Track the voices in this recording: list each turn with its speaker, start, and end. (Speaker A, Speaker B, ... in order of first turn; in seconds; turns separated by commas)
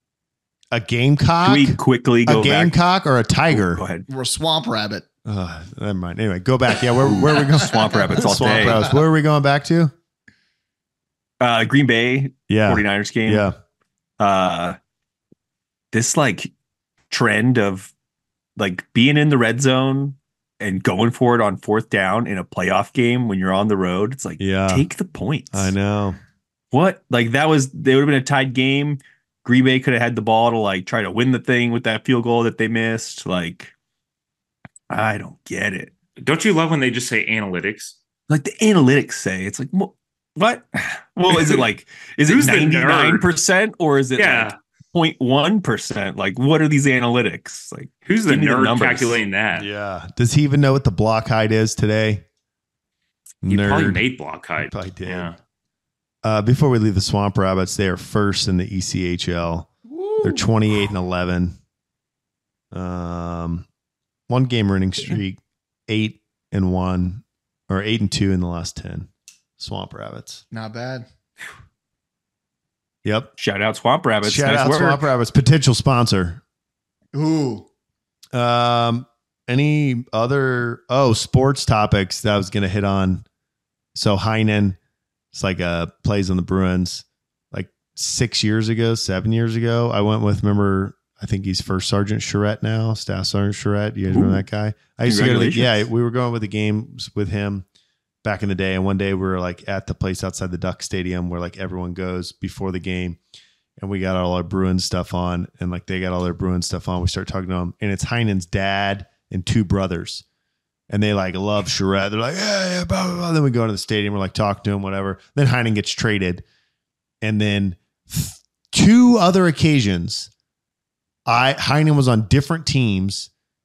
Speaker A: 0.7-3.8, Speaker B: 1.4-2.8, Speaker B: 3.5-4.0, Speaker C: 4.1-5.0, Speaker A: 5.2-9.9, Speaker C: 7.0-8.9, Speaker B: 7.2-8.8, Speaker B: 11.4-13.5, Speaker A: 12.5-13.6, Speaker B: 14.2-14.8, Speaker B: 15.9-16.5, Speaker B: 17.1-17.9, Speaker B: 18.6-25.7, Speaker A: 24.4-24.9, Speaker A: 25.5-26.2, Speaker B: 26.7-33.7, Speaker B: 34.9-35.9, Speaker D: 36.2-37.9, Speaker B: 38.3-49.2, Speaker D: 41.3-41.6, Speaker D: 42.3-43.3, Speaker D: 44.2-44.6, Speaker D: 48.0-49.7, Speaker A: 49.5-52.2, Speaker A: 53.4-54.0, Speaker D: 53.5-55.3, Speaker A: 54.7-55.3, Speaker A: 56.2-61.6, Speaker A: 62.7-63.6, Speaker A: 64.3-70.4, Speaker C: 70.5-71.1, Speaker A: 73.0-73.3, Speaker B: 73.4-75.0, Speaker A: 74.2-76.4, Speaker C: 77.1-77.7, Speaker A: 78.3-83.2, Speaker A: 83.9-84.8, Speaker A: 85.3-97.6, Speaker B: 94.1-94.4, Speaker B: 95.0-95.8, Speaker A: 98.2-103.2, Speaker A: 103.8-110.2, Speaker A: 110.9-116.4, Speaker A: 117.2-120.3, Speaker A: 121.2-123.3